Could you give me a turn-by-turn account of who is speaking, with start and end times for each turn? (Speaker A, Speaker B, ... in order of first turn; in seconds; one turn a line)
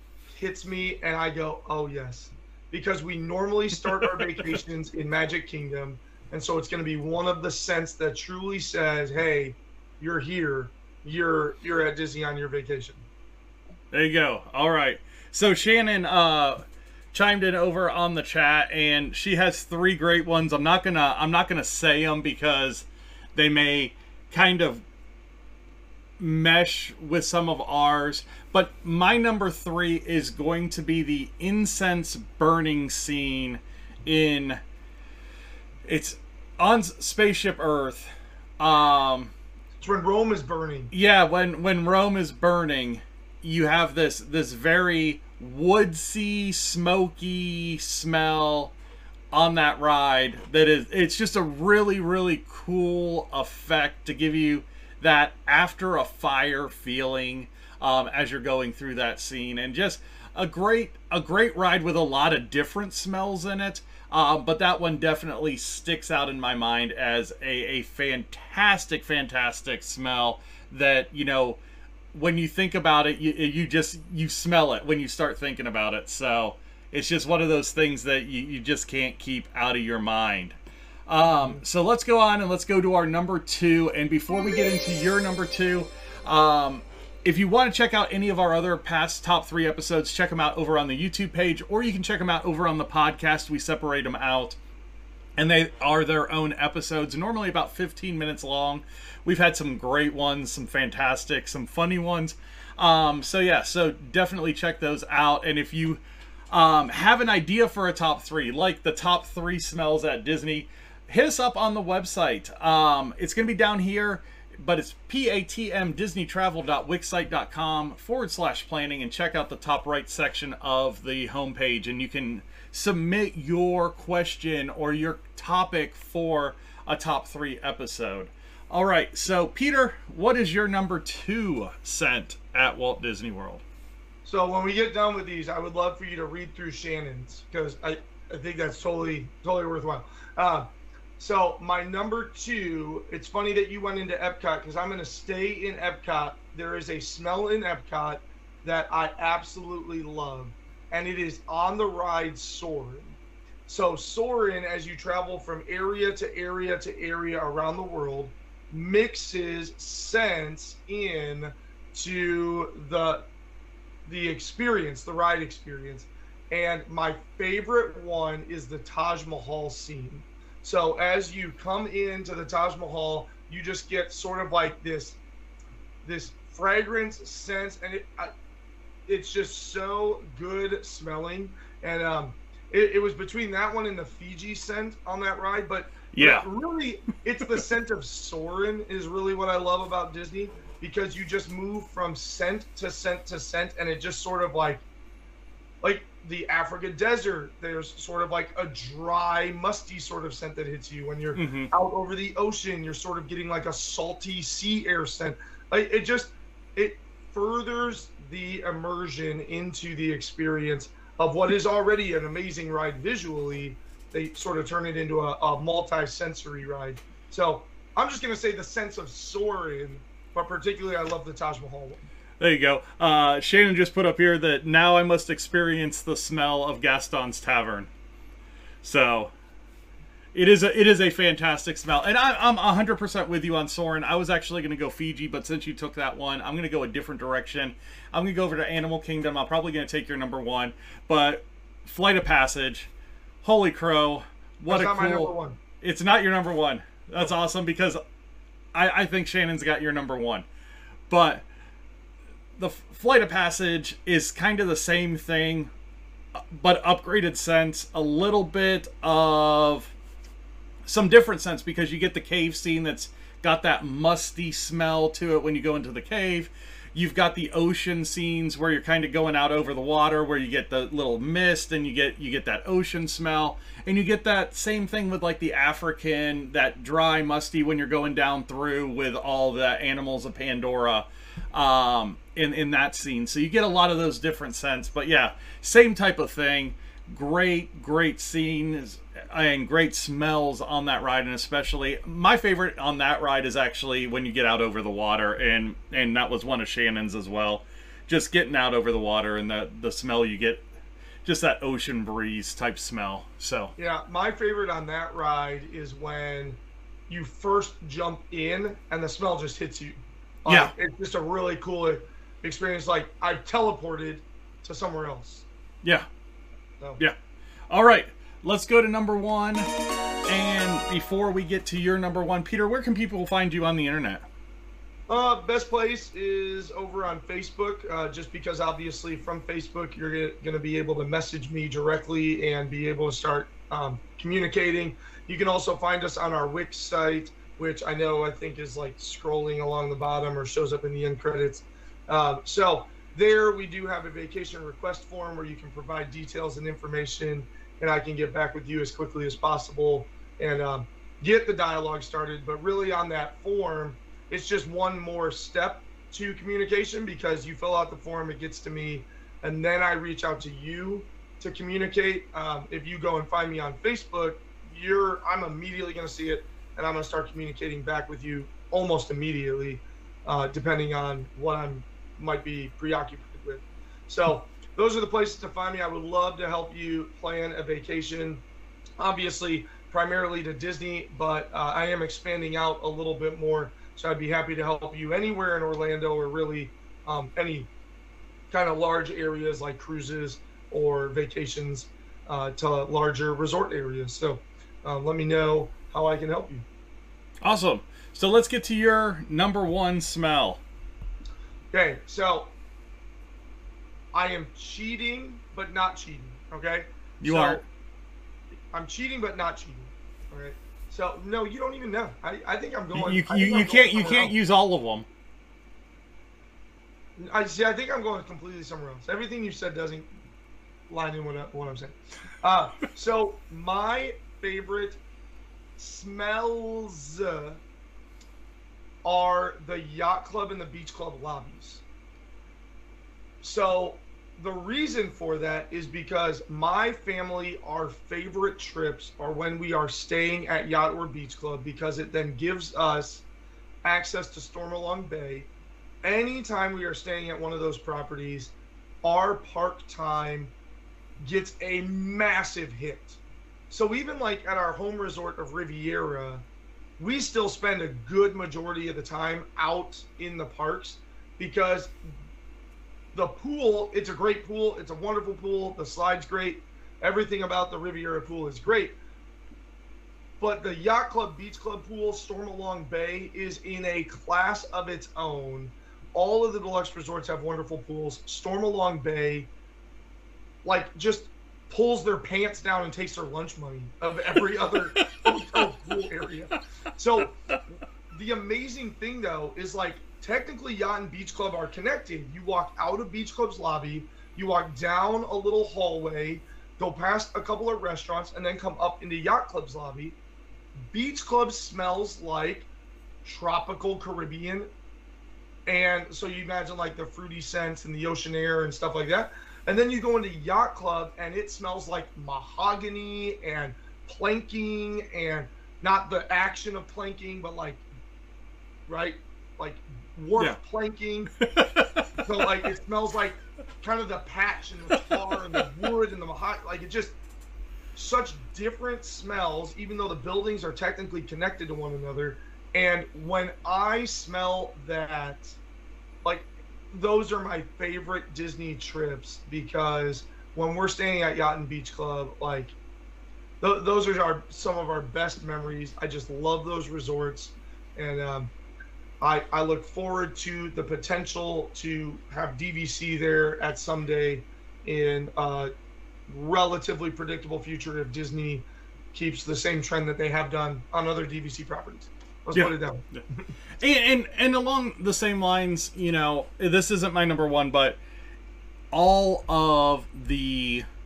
Speaker A: 0.3-13.0
Speaker B: 4.0-4.6
Speaker B: 13.9-24.8
Speaker B: 26.2-34.6
Speaker B: 35.9-39.3
Speaker A: 39.8-40.9
Speaker B: 40.9-48.8
Speaker B: 49.3-71.6
Speaker B: 72.1-94.6
Speaker B: 95.4-133.6
Speaker A: 134.2-163.3
Speaker A: 164.1-175.2
Speaker A: 176.0-178.3
Speaker A: 179.1-194.8
Speaker B: 186.1-186.5
Speaker A: 195.8-222.1
Speaker B: 201.3-201.7
Speaker B: 222.4-227.9
Speaker B: 228.8-229.3
Speaker B: 230.3-242.9
Speaker B: 243.4-248.0
Speaker A: 244.7-245.6
Speaker B: 248.7-250.5
Speaker B: 251.1-251.5
Speaker B: 252.6-255.7
Speaker B: 256.5-259.9
Speaker B: 260.9-300.7
Speaker B: 301.2-303.7
Speaker A: 303.8-315.5
Speaker B: 310.5-310.7
Speaker B: 315.8-316.1
Speaker B: 317.7-319.7
Speaker B: 320.3-324.3
Speaker A: 325.1-378.4
Speaker A: 379.0-387.7
Speaker A: 388.5-396.6
Speaker B: 397.4-400.6
Speaker A: 401.7-402.6
Speaker A: 404.1-407.7
Speaker B: 407.2-407.6
Speaker A: 408.7-414.4
Speaker B: 412.9-415.1
Speaker A: 417.2-420.1
Speaker A: 420.9-425.0
Speaker A: 425.8-427.6
Speaker A: 429.0-431.8
Speaker A: 433.4-443.3
Speaker A: 443.8-445.5
Speaker A: 446.0-450.5
Speaker A: 451.2-456.4
Speaker A: 457.0-462.0
Speaker A: 463.1-468.9
Speaker A: 470.4-479.5
Speaker A: 480.6-487.4
Speaker A: 488.1-500.2
Speaker A: 500.9-502.7
Speaker A: 503.2-504.7
Speaker A: 505.7-517.9
Speaker A: 518.9-521.3
Speaker B: 521.4-522.0
Speaker A: 522.2-527.2
Speaker B: 525.1-525.8
Speaker A: 527.9-535.6
Speaker A: 536.2-542.8
Speaker A: 543.6-548.5
Speaker A: 549.2-555.7
Speaker A: 556.3-563.5
Speaker B: 562.5-563.2
Speaker B: 563.8-568.0
Speaker B: 568.9-570.9